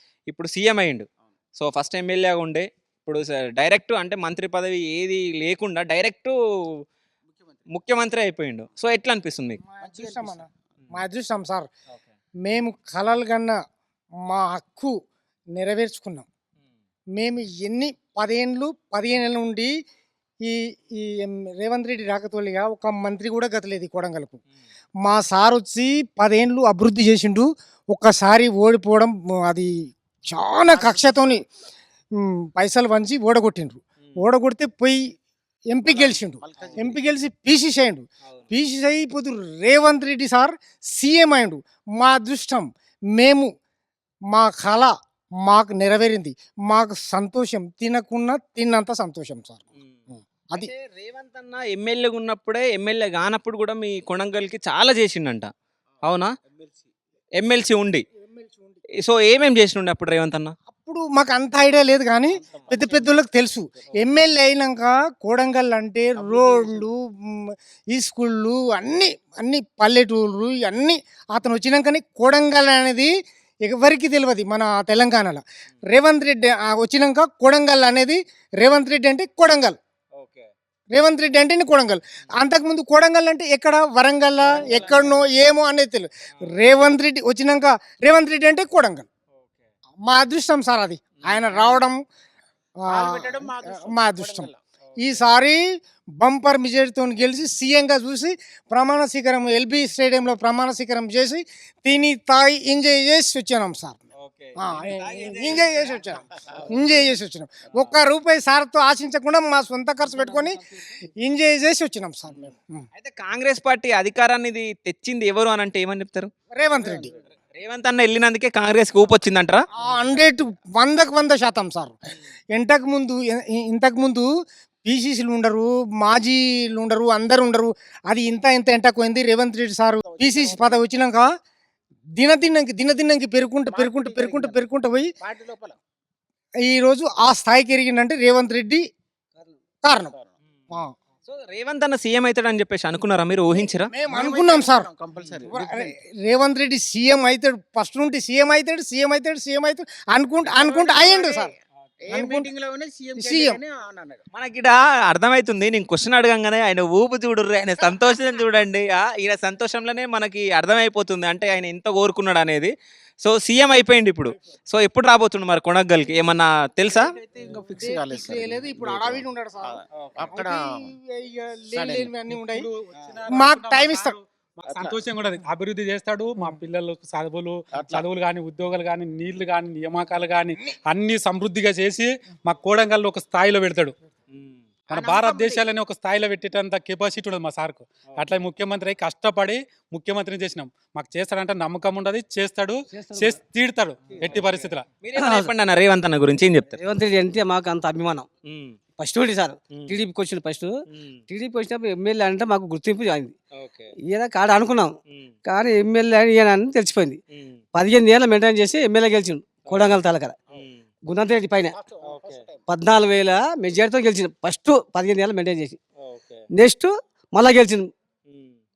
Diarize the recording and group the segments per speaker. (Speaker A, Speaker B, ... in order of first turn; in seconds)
Speaker A: 0.3-1.1, 1.6-6.3, 7.7-9.6, 50.5-55.5, 56.0-56.3, 57.4-58.0, 59.0-60.5, 80.2-80.5, 91.2-91.5, 104.2-106.0, 113.0-116.3, 117.5-119.6, 141.3-143.9, 154.3-162.7, 163.2-167.1, 184.3-184.6, 194.3-196.8, 198.4-198.8, 200.9-201.2, 203.5-203.9, 207.3-207.6, 209.7-210.0, 210.5-210.8, 212.0-212.4, 216.0-216.4, 218.3-218.6
Speaker B: 9.7-11.7, 12.4-13.6, 14.3-14.9, 15.6-16.2, 17.1-19.7, 20.4-24.4, 25.0-29.7, 30.3-31.4, 32.2-35.0, 35.7-43.5, 44.3-44.9, 45.4-49.6, 58.3-58.8, 60.7-73.1, 73.6-79.8, 80.9-89.1, 90.0-92.0, 92.9-95.6, 96.2-104.0, 104.6-110.6, 111.2-112.8, 116.5-117.1, 119.8-121.9, 122.5-124.3, 124.8-131.3, 132.2-135.1, 136.6-138.8, 139.8-140.1, 143.9-144.9, 145.5-151.5, 152.1-152.5, 153.2-153.6, 167.7-172.7, 173.3-174.2
Speaker C: 9.8-10.4, 30.8-31.4, 36.0-37.0, 56.5-56.8, 62.5-63.0, 66.3-66.7, 92.9-94.6, 130.2-130.8, 133.7-134.5, 135.2-135.8, 144.1-145.9, 150.5-151.5, 152.0-154.2, 167.1-170.9, 171.8-172.1, 174.7-175.0, 177.8-178.0, 184.9-185.7, 211.8-212.5
Speaker D: 172.4-183.9, 184.9-194.8
Speaker E: 192.9-193.4, 195.1-195.5, 196.8-198.3, 199.0-200.7, 201.3-203.3, 204.1-207.2, 207.7-210.4, 211.1-211.8, 212.7-215.8, 216.5-217.9